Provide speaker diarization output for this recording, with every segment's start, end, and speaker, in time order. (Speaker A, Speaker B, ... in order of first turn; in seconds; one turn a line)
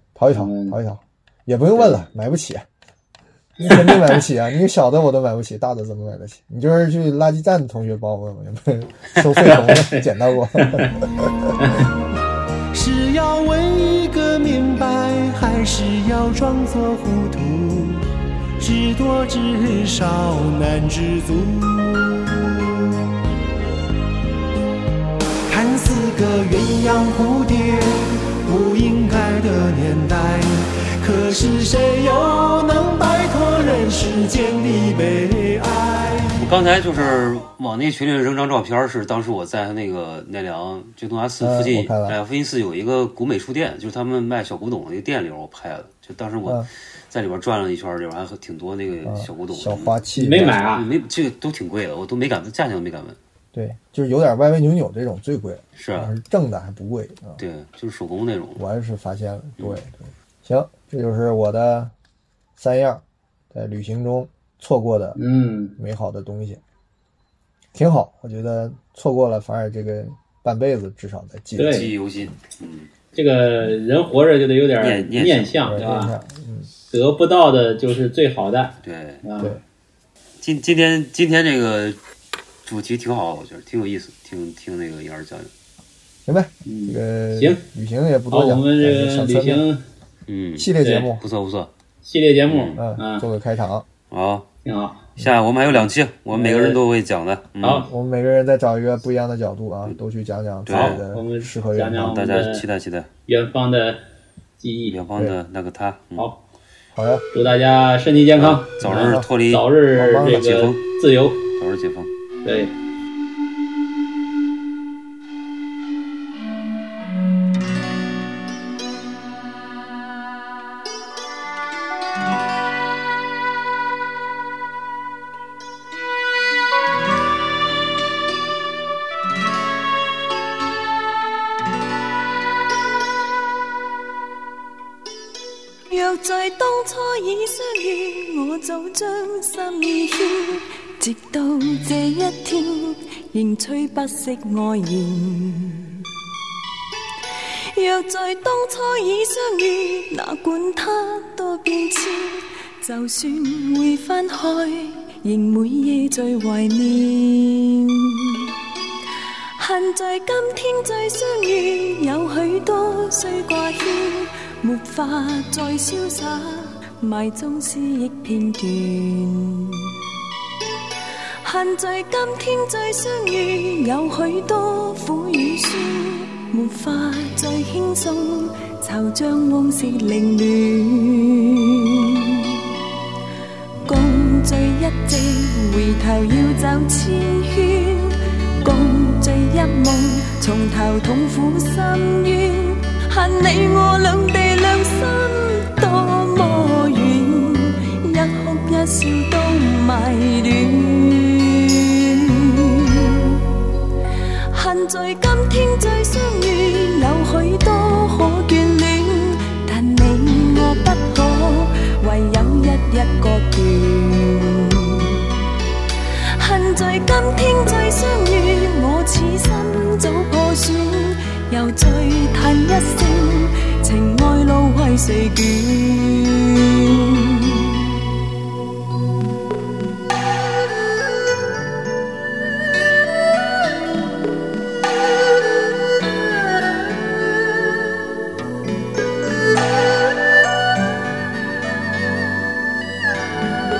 Speaker A: 0.1-2.6
Speaker B: 0.3-0.8
Speaker A: 3.6-11.5
Speaker B: 9.4-10.0
Speaker B: 10.6-10.9
Speaker B: 11.6-11.9
Speaker C: 12.7-18.1
Speaker C: 18.6-23.0
Speaker C: 25.5-36.4
Speaker D: 36.4-49.9
Speaker A: 41.4-42.2
Speaker A: 49.0-50.6
Speaker B: 50.2-50.8
Speaker D: 50.7-53.2
Speaker A: 53.5-57.4
Speaker D: 55.8-56.1
Speaker D: 57.4-58.6
Speaker A: 58.5-61.9
Speaker A: 62.6-65.2
Speaker B: 65.2-65.7
Speaker A: 65.8-66.6
Speaker A: 67.7-71.8
Speaker B: 71.6-71.9
Speaker D: 71.6-72.9
Speaker B: 73.1-76.1
Speaker D: 74.8-76.0
Speaker A: 75.7-76.7
Speaker B: 76.9-79.5
Speaker D: 78.8-79.2
Speaker D: 80.4-82.0
Speaker D: 82.6-85.5
Speaker A: 86.2-89.6
Speaker B: 86.6-87.6
Speaker B: 88.3-89.8
Speaker D: 90.3-91.7
Speaker A: 90.6-91.2
Speaker B: 90.8-91.1
Speaker B: 92.0-93.2
Speaker D: 92.5-92.8
Speaker A: 92.8-93.9
Speaker D: 94.1-94.5
Speaker B: 94.6-95.0
Speaker D: 95.2-97.9
Speaker B: 96.3-96.7
Speaker B: 97.6-97.9
Speaker A: 97.9-102.2
Speaker D: 100.7-101.0
Speaker B: 100.7-102.6
Speaker D: 102.0-103.1
Speaker B: 103.3-104.0
Speaker B: 104.6-105.0
Speaker D: 104.9-106.3
Speaker A: 106.9-107.2
Speaker B: 107.3-111.4
Speaker D: 108.3-110.8
Speaker A: 108.8-109.3
Speaker A: 109.9-110.6
Speaker D: 111.6-112.1
Speaker B: 112.4-112.7
Speaker E: 135.9-146.1
Speaker E: 147.7-158.5
Speaker E: 159.6-170.0
Speaker E: 171.4-182.6
Speaker E: 183.8-203.4
Speaker E: 204.5-215.3
Speaker E: 216.3-227.8